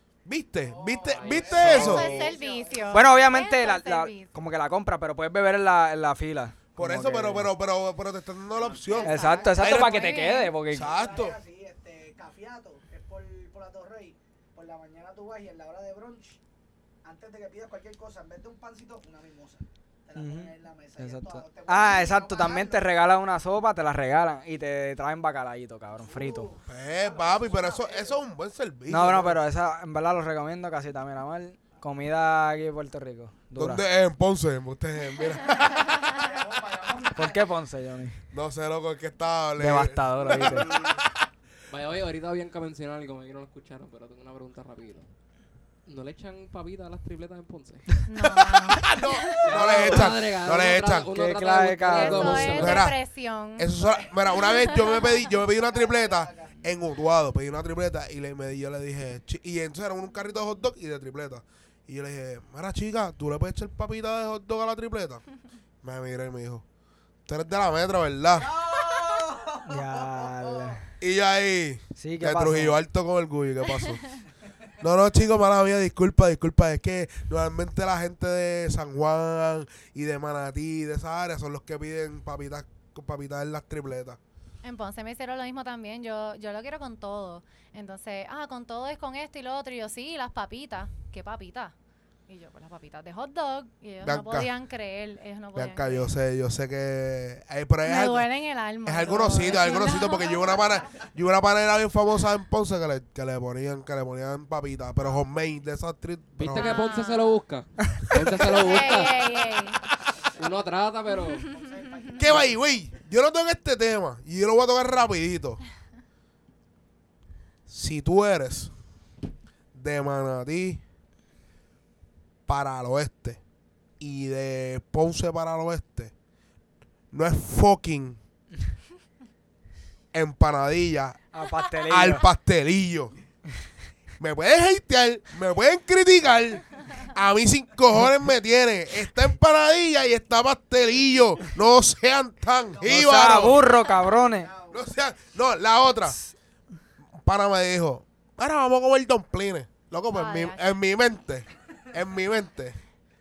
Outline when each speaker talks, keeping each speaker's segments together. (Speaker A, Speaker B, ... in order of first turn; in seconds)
Speaker A: 0.2-2.3, 6.8-11.4, 26.7-29.4, 33.6-36.0, 38.3-41.1, 48.5-51.1, 52.5-53.0, 53.6-65.2, 65.8-66.6, 67.3-68.5, 71.0-74.1, 74.8-84.2, 94.0-94.5, 95.5-98.3, 98.8-106.8, 112.2-115.6, 117.7-118.7, 119.7-120.8, 122.5-123.4, 124.0-126.1, 127.1-128.2, 130.1-131.3, 131.9-133.1, 134.2-143.6, 144.7-146.2, 147.2-152.8
Speaker B: 0.6-3.2, 8.7-9.8, 10.7-16.4, 17.0-22.9, 26.0-28.2, 36.0-37.5, 53.9-54.3, 55.3-56.6, 68.3-70.8, 100.2-101.1, 111.4-112.9, 142.6-144.9
Speaker C: 1.1-1.9, 41.7-45.1, 45.9-48.0, 49.4-52.8, 106.4-109.3, 110.3-111.5
Speaker D: 1.6-4.4, 9.0-10.7, 48.1-49.6, 51.9-53.7, 54.4-55.1, 84.6-91.7, 92.3-96.1, 97.8-100.5, 106.5-107.4, 108.5-109.8, 150.1-150.6
Speaker E: 2.9-7.5, 9.0-10.9, 20.2-26.5, 28.9-33.8, 37.1-38.2, 39.6-40.8, 51.1-52.8, 69.7-70.8, 72.0-72.8, 131.3-132.3, 142.8-144.5